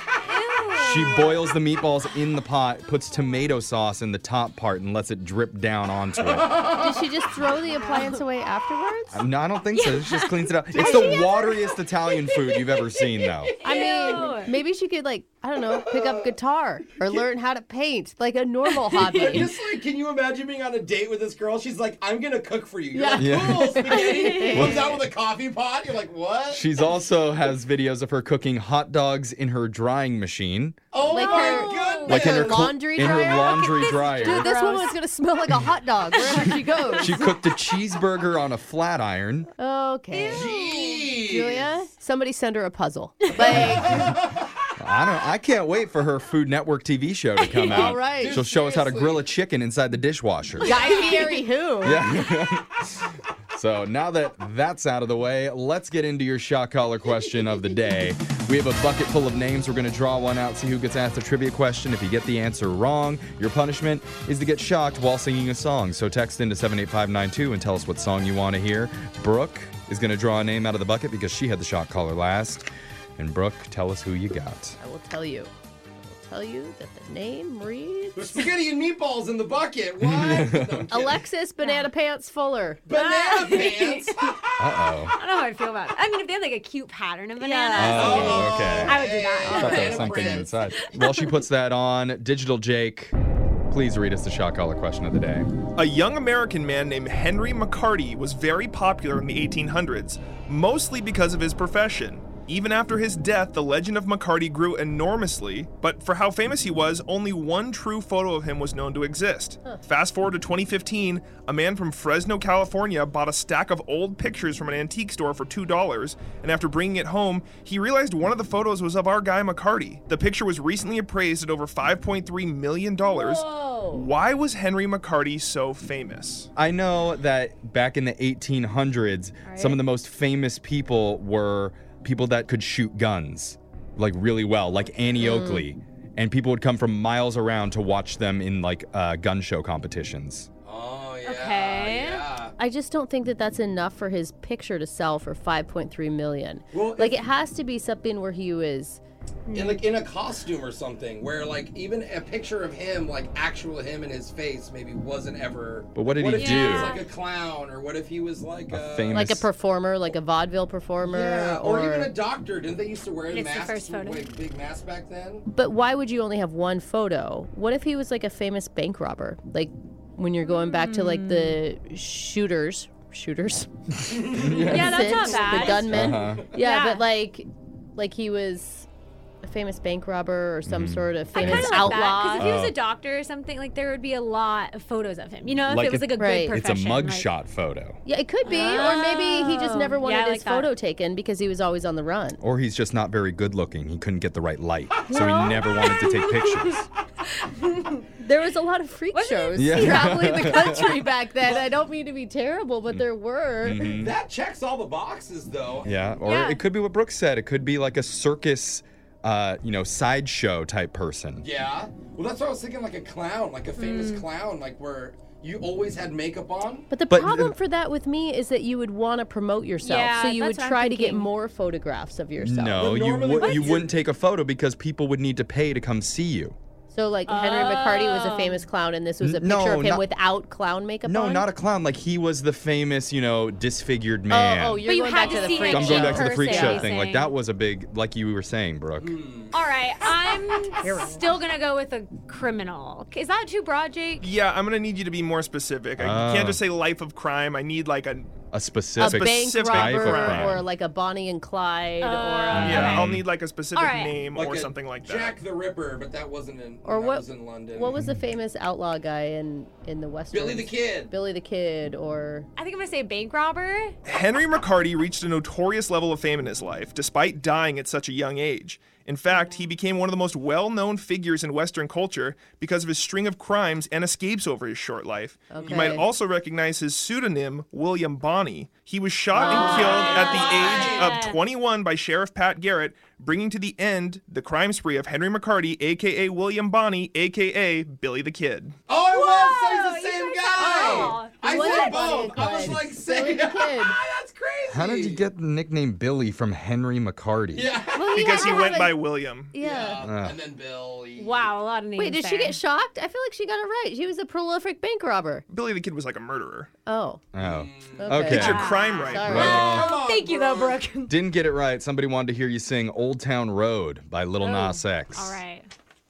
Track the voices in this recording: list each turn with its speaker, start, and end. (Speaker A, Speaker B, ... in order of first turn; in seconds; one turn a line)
Speaker A: 0.2-1.5
Speaker B: 0.7-6.5
Speaker C: 6.3-6.9
Speaker D: 6.6-9.2
Speaker A: 7.7-8.2
Speaker B: 9.1-13.5
Speaker A: 9.8-11.2
Speaker D: 10.7-11.6
Speaker A: 13.6-14.5
Speaker D: 13.6-19.5
Speaker C: 15.7-16.3
Speaker A: 18.9-19.4
Speaker C: 19.0-26.6
Speaker D: 22.9-25.0
Speaker B: 23.1-23.8
Speaker A: 23.8-25.0
Speaker B: 24.5-24.8
Speaker B: 26.5-30.8
Speaker C: 30.9-32.7
Speaker A: 31.0-32.2
Speaker D: 31.1-37.4
Speaker B: 32.0-34.5
Speaker A: 33.0-35.0
Speaker A: 36.2-37.1
Speaker B: 37.0-39.5
Speaker D: 39.6-40.5
Speaker A: 40.1-41.1
Speaker C: 40.3-41.7
Speaker D: 41.1-44.1
Speaker C: 43.6-44.1
Speaker B: 44.8-50.8
Speaker D: 47.7-48.4
Speaker C: 47.8-49.2
Speaker A: 50.6-51.4
Speaker D: 50.6-52.0
Speaker B: 51.8-74.8
Speaker D: 74.8-75.5
Speaker D: 76.0-78.4
Speaker C: 78.1-81.2
Speaker B: 80.0-80.8
Speaker D: 80.9-82.8
Speaker A: 81.6-81.9
Speaker C: 82.9-84.5
Speaker A: 82.9-84.3
Speaker B: 84.6-85.1
Speaker A: 85.1-90.2
Speaker D: 87.4-88.6
Speaker B: 87.7-93.1
Speaker C: 87.9-90.5
Speaker D: 89.4-90.2
Speaker A: 91.0-91.3
Speaker B: 93.7-95.5
Speaker E: 95.8-126.5
Speaker D: 123.0-123.8
Speaker B: 126.5-140.5
Speaker A: 129.4-129.8
Speaker D: 135.2-135.7
Speaker C: 140.6-142.5
Speaker A: 141.2-142.2
Speaker D: 142.6-149.0
Speaker C: 146.7-147.2
Speaker A: 149.5-149.8
Speaker C: 149.5-159.3
Speaker B: 155.9-156.9
Speaker A: 156.3-157.1
Speaker B: 158.7-159.5
Speaker D: 159.1-162.1
Speaker C: 161.0-165.5
Speaker A: 163.3-164.3
Speaker D: 165.5-173.7
Speaker A: 170.4-171.6
Speaker C: 174.1-176.6
Speaker B: 174.1-175.2
Speaker D: 174.6-178.9
Speaker A: 174.7-176.0
Speaker B: 175.8-176.4
Speaker A: 176.6-177.0
Speaker D: 179.4-182.5
Speaker B: 180.6-182.8
Speaker A: 181.3-187.3
Speaker B: 185.7-188.0
Speaker D: 186.2-186.6
Speaker D: 188.0-192.4
Speaker A: 188.4-190.7
Speaker B: 192.4-196.8
Speaker D: 195.1-195.6
Speaker A: 196.2-196.7
Speaker A: 197.6-198.0
Speaker D: 198.2-203.9
Speaker A: 199.1-200.6
Speaker B: 199.5-201.0
Speaker B: 203.6-204.1
Speaker C: 203.8-205.9
Speaker B: 205.8-211.4
Speaker A: 206.2-206.6
Speaker C: 211.4-216.9
Speaker A: 213.8-214.3
Speaker D: 216.9-222.9
Speaker B: 217.1-217.5
Speaker A: 219.8-221.3
Speaker B: 222.4-226.5
Speaker C: 222.8-223.9
Speaker A: 223.4-223.8
Speaker D: 226.9-231.5
Speaker A: 227.2-228.7
Speaker B: 229.2-230.0
Speaker B: 231.0-239.2
Speaker D: 234.3-236.9
Speaker A: 234.8-237.3
Speaker C: 239.0-239.6
Speaker A: 239.5-244.3
Speaker D: 240.8-241.2
Speaker E: 244.2-248.3
Speaker B: 246.0-246.6
Speaker B: 248.5-250.6
Speaker D: 249.0-253.0
Speaker E: 249.0-250.6
Speaker A: 252.0-253.1
Speaker B: 252.5-253.2
Speaker E: 252.6-255.4
Speaker A: 253.7-254.2
Speaker C: 254.3-257.9
Speaker D: 256.8-262.5
Speaker C: 260.3-261.1
Speaker A: 262.6-263.9
Speaker E: 264.0-288.7
Speaker D: 275.5-276.1
Speaker C: 275.6-275.9
Speaker A: 279.3-281.4
Speaker C: 279.4-281.2
Speaker C: 288.9-295.3
Speaker A: 289.1-292.1
Speaker D: 290.6-294.0
Speaker B: 292.3-292.8
Speaker B: 294.7-297.7
Speaker C: 297.5-298.6
Speaker D: 297.9-299.0
Speaker E: 298.1-299.5
Speaker D: 299.5-300.0
Speaker C: 299.6-301.5
Speaker B: 300.0-300.3
Speaker A: 301.2-302.6
Speaker D: 301.9-305.4
Speaker E: 305.5-306.7
Speaker D: 306.9-307.2
Speaker B: 307.3-309.9
Speaker C: 307.4-308.3
Speaker D: 308.0-309.6
Speaker E: 308.3-309.7
Speaker A: 308.3-311.1
Speaker C: 309.2-310.8
Speaker B: 311.1-315.4
Speaker A: 314.4-315.7